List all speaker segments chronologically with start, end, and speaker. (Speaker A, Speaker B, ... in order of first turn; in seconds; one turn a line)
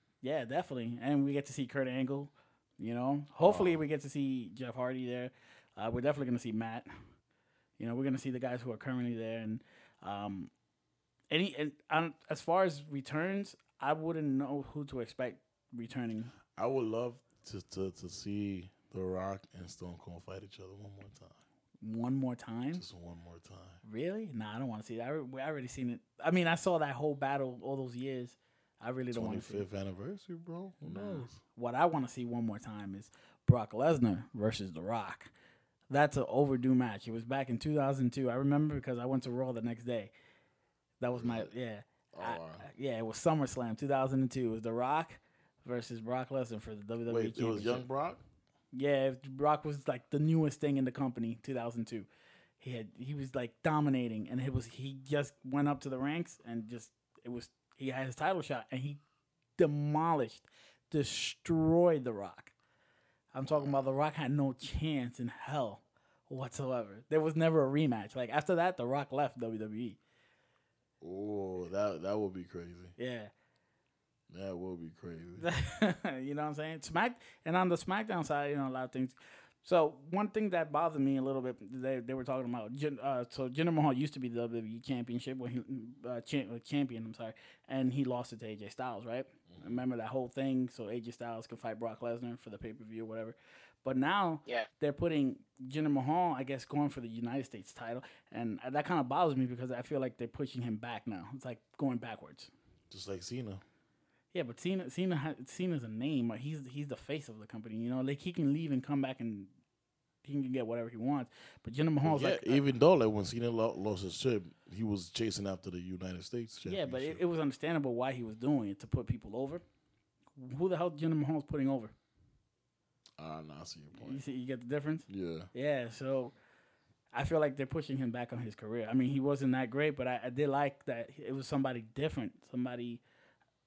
Speaker A: 0.2-6.9
Speaker B: 3.4-3.8
Speaker A: 7.8-10.5
Speaker A: 11.3-16.3
Speaker B: 16.6-21.4
Speaker A: 21.8-22.8
Speaker B: 22.7-23.8
Speaker A: 23.8-29.6
Speaker B: 29.1-31.4
Speaker A: 30.8-35.3
Speaker A: 35.9-40.1
Speaker A: 41.0-47.9
Speaker B: 41.1-41.5
Speaker B: 42.1-42.7
Speaker B: 47.1-48.2
Speaker A: 48.7-52.1
Speaker A: 52.6-59.0
Speaker A: 59.6-62.5
Speaker A: 63.3-70.0
Speaker B: 71.0-72.9
Speaker A: 73.0-73.3
Speaker B: 74.3-75.5
Speaker A: 75.4-102.5
Speaker B: 89.5-89.8
Speaker B: 102.9-103.6
Speaker A: 104.3-109.5
Speaker A: 110.2-112.6
Speaker B: 112.0-117.2
Speaker A: 116.7-119.6
Speaker A: 120.3-121.9
Speaker B: 123.2-124.2
Speaker A: 124.0-126.3
Speaker B: 125.1-125.5
Speaker A: 127.1-133.0